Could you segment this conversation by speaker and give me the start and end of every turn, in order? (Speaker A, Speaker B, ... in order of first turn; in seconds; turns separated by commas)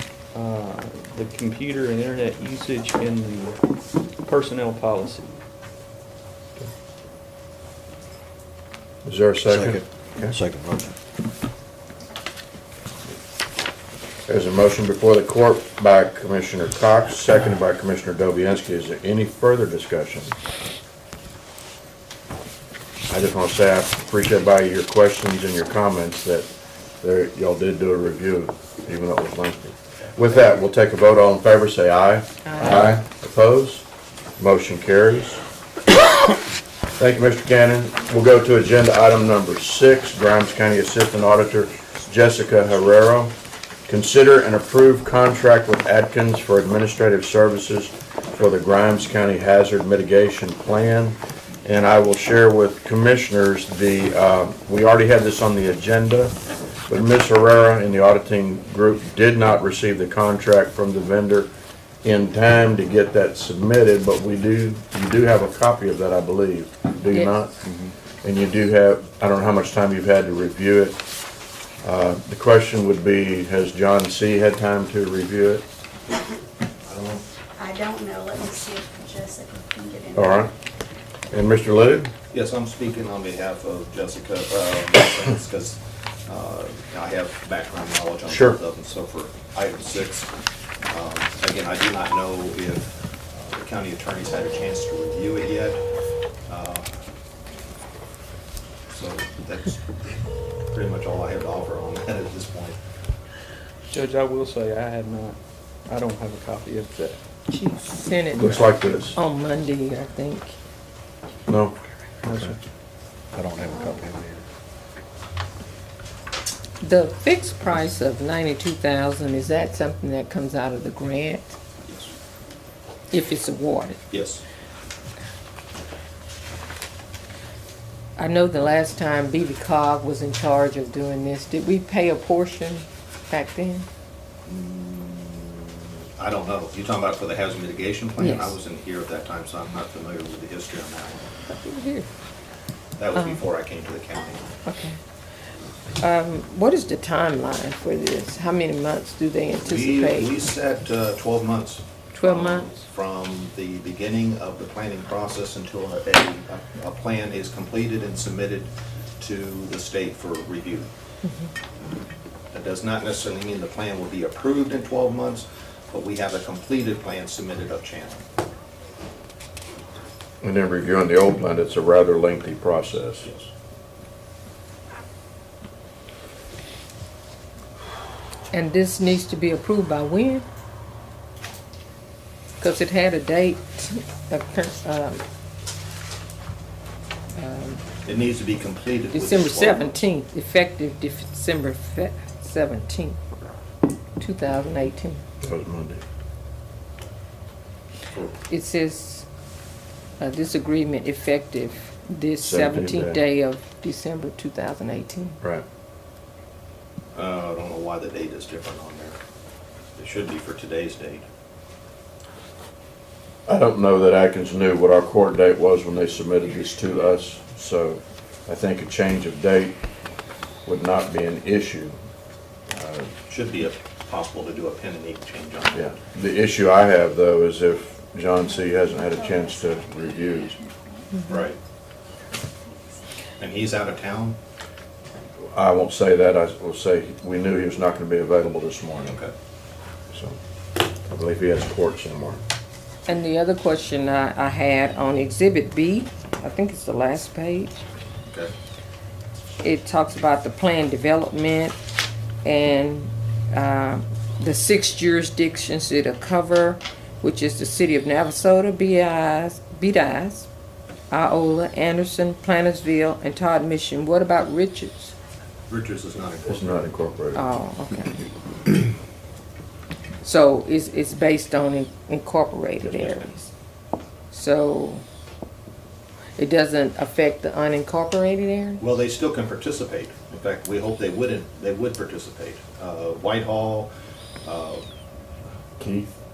Speaker A: 0.3-3.6, Speaker A: 4.3-5.4, Speaker B: 9.1-10.4, Speaker C: 9.5-11.0, Speaker B: 14.3-20.3, Speaker B: 23.1-26.5, Speaker B: 27.0-33.8, Speaker D: 32.5-33.0, Speaker B: 34.4-35.4, Speaker B: 37.0-43.3, Speaker B: 43.9-56.3, Speaker B: 56.9-61.5, Speaker B: 62.0-67.6, Speaker D: 67.1-67.4, Speaker B: 68.2-71.0, Speaker B: 71.8-75.6, Speaker E: 76.8-77.2, Speaker F: 77.6-80.4, Speaker B: 80.1-80.5, Speaker B: 81.3-82.1, Speaker E: 82.3-90.3, Speaker B: 88.3-88.6, Speaker E: 90.9-95.8, Speaker E: 96.5-96.9, Speaker E: 98.9-99.8, Speaker E: 100.7-102.8, Speaker A: 103.9-107.2, Speaker D: 107.5-110.5, Speaker B: 108.3-109.2, Speaker B: 111.5-111.8, Speaker C: 112.3-112.5, Speaker C: 113.3-114.4, Speaker D: 116.8-121.6, Speaker D: 123.1-124.0, Speaker E: 124.1-124.4, Speaker D: 128.2-133.9, Speaker E: 134.5-141.2, Speaker D: 138.2-138.6, Speaker D: 141.5-142.1, Speaker E: 143.0-144.5, Speaker D: 143.1-143.4, Speaker D: 144.7-145.0, Speaker D: 146.0-150.3, Speaker E: 149.6-160.9, Speaker D: 152.1-152.7, Speaker E: 162.5-168.2, Speaker B: 170.4-173.3, Speaker E: 173.2-173.5, Speaker D: 178.5-180.4, Speaker D: 182.6-185.2, Speaker D: 187.4-187.8, Speaker E: 188.1-190.0, Speaker D: 189.1-193.2, Speaker D: 194.2-195.2, Speaker B: 195.4-196.0, Speaker E: 198.1-198.4, Speaker D: 198.5-199.3, Speaker D: 200.2-205.4, Speaker B: 202.4-203.2, Speaker E: 207.2-209.2, Speaker E: 210.0-211.3, Speaker B: 213.5-219.8, Speaker B: 220.7-222.0, Speaker B: 222.7-223.1, Speaker E: 223.3-225.9, Speaker B: 225.8-230.6, Speaker F: 229.1-229.7, Speaker F: 230.6-231.1, Speaker E: 231.3-231.6, Speaker E: 233.4-234.4, Speaker B: 235.5-239.2, Speaker E: 239.1-239.3, Speaker B: 240.1-240.4, Speaker B: 241.1-242.4, Speaker D: 243.1-247.8, Speaker D: 249.6-251.8, Speaker D: 252.4-260.5, Speaker D: 261.1-265.1, Speaker E: 265.7-266.8, Speaker B: 266.5-267.4, Speaker D: 267.4-268.3, Speaker D: 270.2-273.5, Speaker E: 272.9-273.2, Speaker D: 274.3-275.0, Speaker D: 276.4-278.8, Speaker E: 278.8-283.9, Speaker E: 284.4-284.9, Speaker B: 285.8-286.1